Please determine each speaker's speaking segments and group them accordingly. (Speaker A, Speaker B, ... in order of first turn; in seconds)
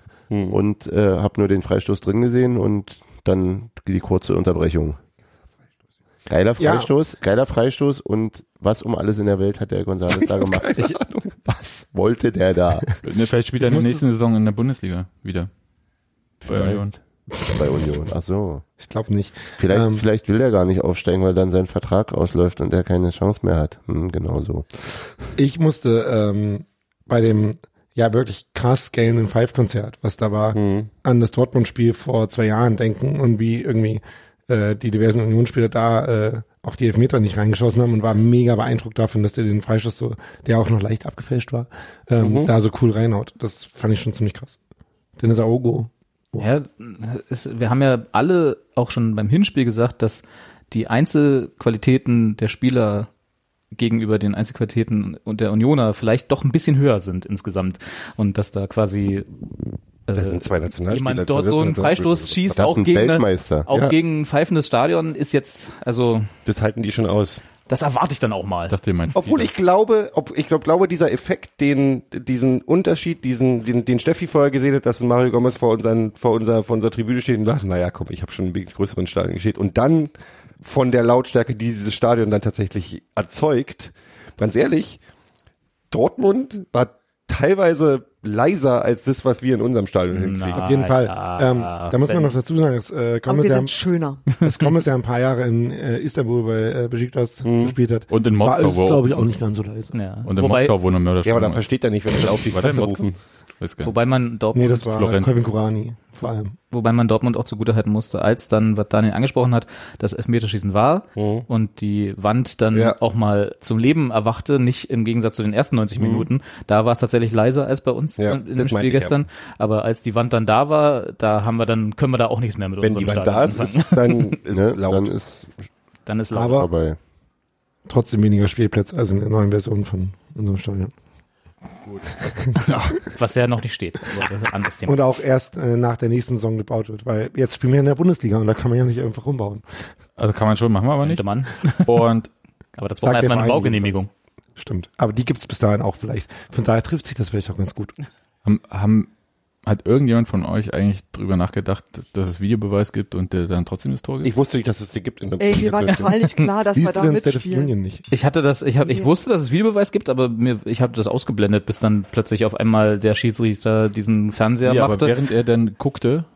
Speaker A: 0.3-0.6, 10.2-11.3, 30.5-30.9, 42.2-42.5, 60.1-62.6, 63.7-64.0, 66.5-67.4, 69.1-85.0, 85.9-90.7, 97.4-97.8, 101.2-103.2, 111.2-111.5, 116.0-116.3, 118.2-119.2, 122.8-125.1, 154.2-156.1
Speaker B: 0.5-5.0, 6.3-12.8, 16.4-18.6, 19.6-24.7, 62.5-63.7, 124.5-125.5, 126.4-127.0
Speaker C: 6.6-6.9, 13.6-14.0, 18.8-20.0, 25.4-44.6, 45.2-46.5, 90.6-93.7, 94.3-99.9, 104.5-106.5, 126.3-126.7, 127.9-130.9, 132.2-132.5, 134.8-139.6, 143.0-144.0, 144.6-147.9, 156.7-158.0
Speaker D: 13.0-15.5, 16.4-17.0, 68.7-69.5, 98.1-99.3, 100.2-101.7, 102.2-103.0, 103.6-103.9, 104.9-105.3, 140.2-142.3, 148.4-149.1, 149.6-154.3, 164.6-166.3
Speaker E: 46.4-53.1, 53.7-59.3, 60.1-66.3, 67.7-68.7, 90.1-92.3, 99.9-100.7, 103.8-104.9, 106.7-124.3, 126.0-126.7, 132.7-135.0, 141.0-141.8, 142.8-144.1, 158.1-165.1
Speaker F: 93.2-94.3, 155.4-157.7, 158.8-159.1